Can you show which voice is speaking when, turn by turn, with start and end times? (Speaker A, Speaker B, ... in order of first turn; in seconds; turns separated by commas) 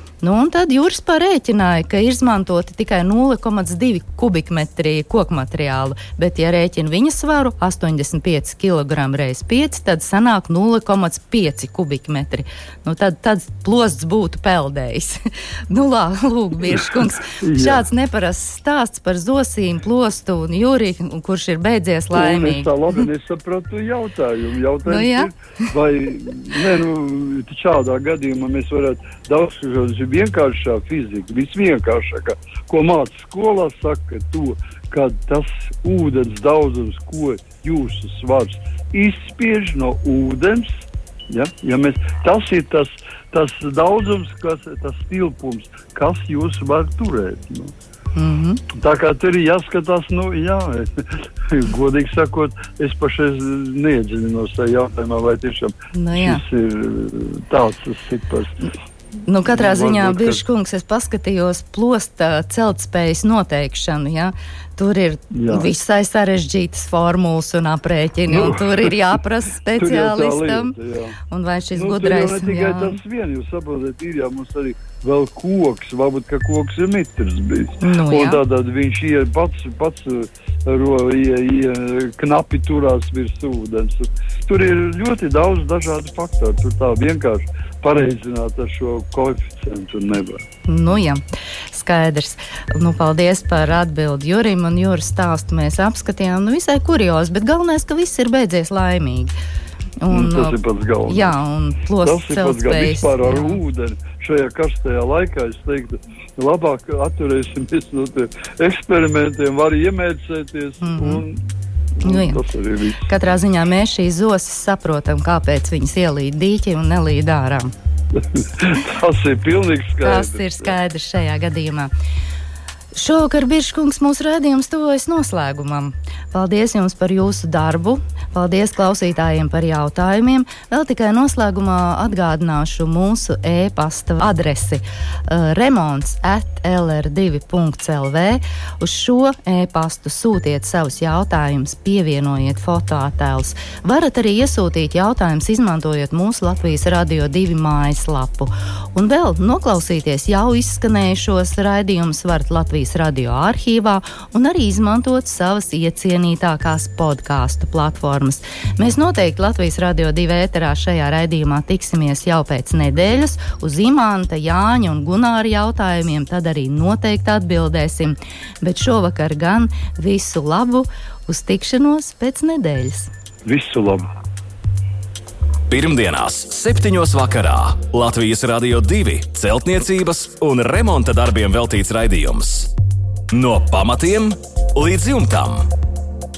Speaker A: 0.2-22.7, Speaker B: 17.3-17.9, Speaker B: 22.1-47.7, Speaker A: 24.9-25.3, Speaker A: 48.1-48.6, Speaker B: 48.7-58.6, Speaker A: 55.9-56.4, Speaker A: 59.3-70.8, Speaker B: 59.5-60.4, Speaker B: 65.3-65.7, Speaker B: 68.3-69.0, Speaker B: 69.8-71.2, Speaker A: 71.3-73.0, Speaker B: 71.8-90.5, Speaker A: 77.8-78.4, Speaker A: 90.7-99.3, Speaker A: 100.0-103.6, Speaker B: 100.1-101.4, Speaker B: 102.0-111.4, Speaker A: 110.8-111.2, Speaker B: 112.0-113.1, Speaker A: 112.0-112.4, Speaker A: 113.0-117.7, Speaker B: 118.2-120.8, Speaker A: 120.0-121.9, Speaker A: 122.9-173.1, Speaker B: 173.4-174.1, Speaker C: 175.7-182.7, Speaker C: 183.3-185.7